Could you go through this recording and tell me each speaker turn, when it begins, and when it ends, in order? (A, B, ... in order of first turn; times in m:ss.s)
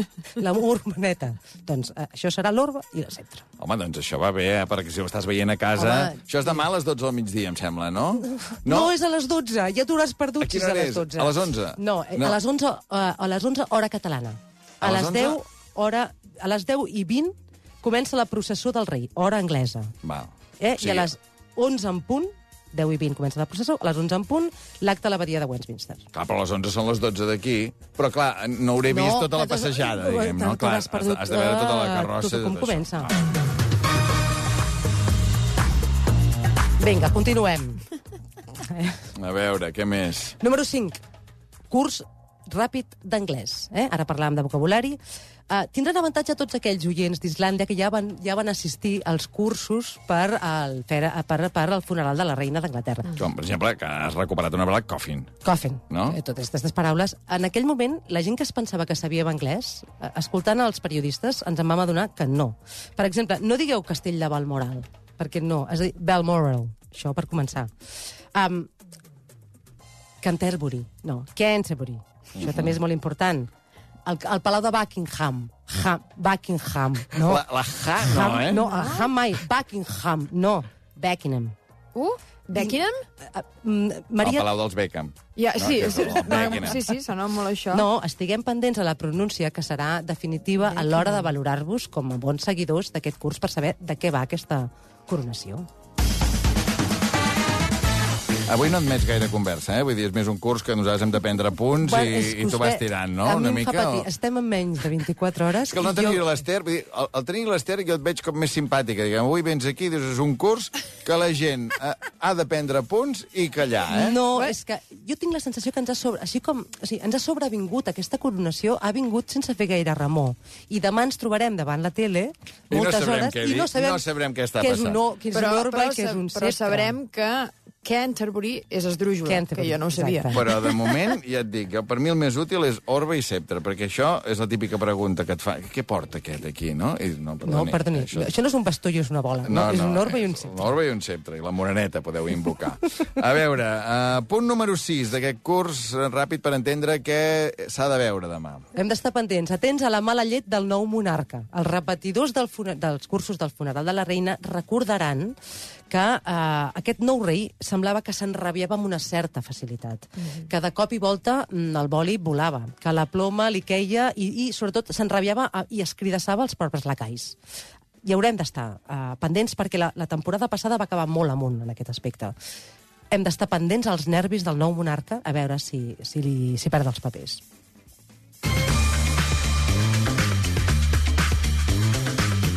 0:00.4-0:03.4 A
0:03.6-0:08.9 B
0:05.8-0:06.6 A
0:08.2-0:19.9 A
0:10.4-0:12.4 B
0:14.8-0:15.4 B
0:20.0-0:21.1 B
0:20.6-0:26.1 A
0:26.1-0:33.1 B
0:28.9-0:33.1 A
0:36.8-0:37.8 A
0:39.2-0:40.4 B
0:40.4-0:41.0 A
0:41.7-0:53.2 A
0:53.1-0:55.3 B
0:55.4-1:07.7 A
0:55.9-0:56.2 B
1:08.3-1:08.7 A
1:10.2-1:13.5 A
1:12.4-1:12.7 B
1:14.1-1:21.6 A
1:17.1-1:18.6 B
1:18.5-1:19.1 C
1:22.0-1:23.0 C
1:22.6-1:24.5 A
1:24.2-1:26.8 B
1:25.4-1:27.9 C
1:26.4-1:26.8 A
1:27.7-1:35.7 A
1:30.6-1:31.3 C
1:38.5-1:44.1 B
1:41.8-1:46.2 A
1:45.6-1:54.2 B
1:53.9-2:04.1 A
2:02.7-2:05.0 B
2:04.6-2:07.0 A
2:05.3-2:10.6 C
2:09.2-2:10.5 A
2:10.3-2:18.3 B
2:17.4-2:20.7 A
2:19.5-2:28.6 B
2:28.7-2:35.4 A
2:35.9-2:47.4 A
2:48.0-2:52.4 A
2:53.1-2:57.4 A